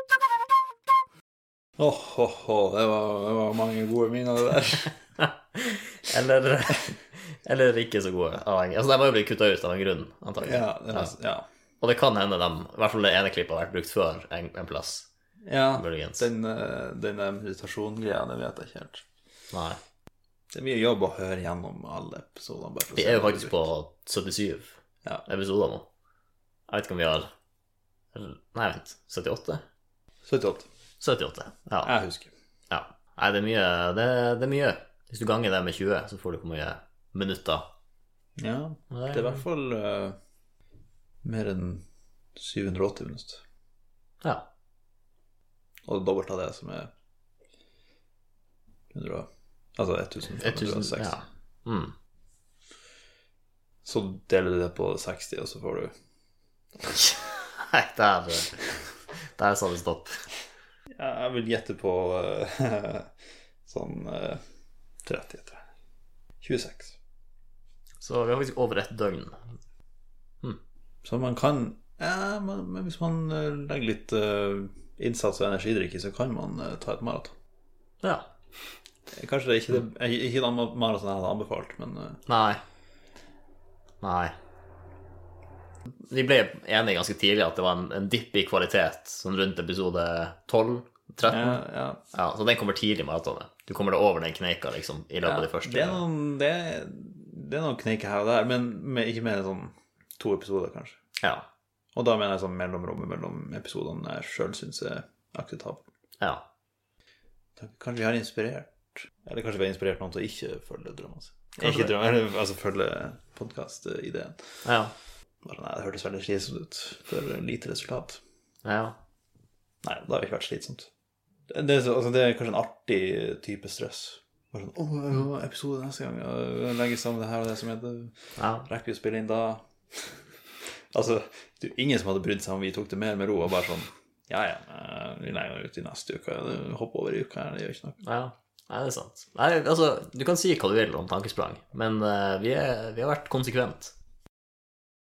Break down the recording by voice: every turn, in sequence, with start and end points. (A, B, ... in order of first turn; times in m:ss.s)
0:01.8-0:04.9 A
0:05.2-0:11.1 B
0:10.4-0:11.4 A
0:11.8-0:15.1 B
0:15.4-0:19.0 A
0:15.8-0:16.2 B
0:19.5-0:19.8 B
0:20.5-0:23.6 A
0:22.9-0:25.9 B
0:26.7-0:27.3 B
0:28.1-0:29.6 B
0:30.2-0:30.7 A
0:31.0-0:31.9 B
0:31.8-0:32.3 A
0:32.7-0:37.7 B
0:38.4-0:40.2 A
0:38.9-0:39.4 B
0:41.2-0:41.8 A
0:42.4-0:43.4 A
0:44.2-0:44.5 B
0:45.8-0:46.9 A
0:48.9-0:51.2 A
0:50.4-0:51.9 B
0:53.8-0:55.9 A
0:56.8-0:58.6 B
0:59.4-1:00.2 B
1:00.9-1:03.1 A
1:03.6-1:04.4 A
1:05.0-1:05.6 A
1:06.4-1:07.0 A
1:08.0-1:09.4 B
1:11.0-1:17.3 A
1:18.0-1:18.3 B
1:19.1-1:22.2 A
1:22.3-1:22.6 B
1:24.0-1:24.3 B
1:26.0-1:31.6 B
1:31.2-1:32.0 A
1:32.1-1:36.0 B
1:35.2-1:41.0 A
1:41.2-1:41.5 B
1:41.9-1:45.8 A
1:47.6-1:54.6 A
1:51.6-1:51.9 B
1:54.6-1:54.9 B
1:55.4-1:58.2 A
1:58.6-1:59.0 B
1:59.8-2:00.9 A
2:01.5-2:10.2 A
2:08.4-2:08.6 B
2:10.9-2:18.0 A
2:18.0-2:23.9 B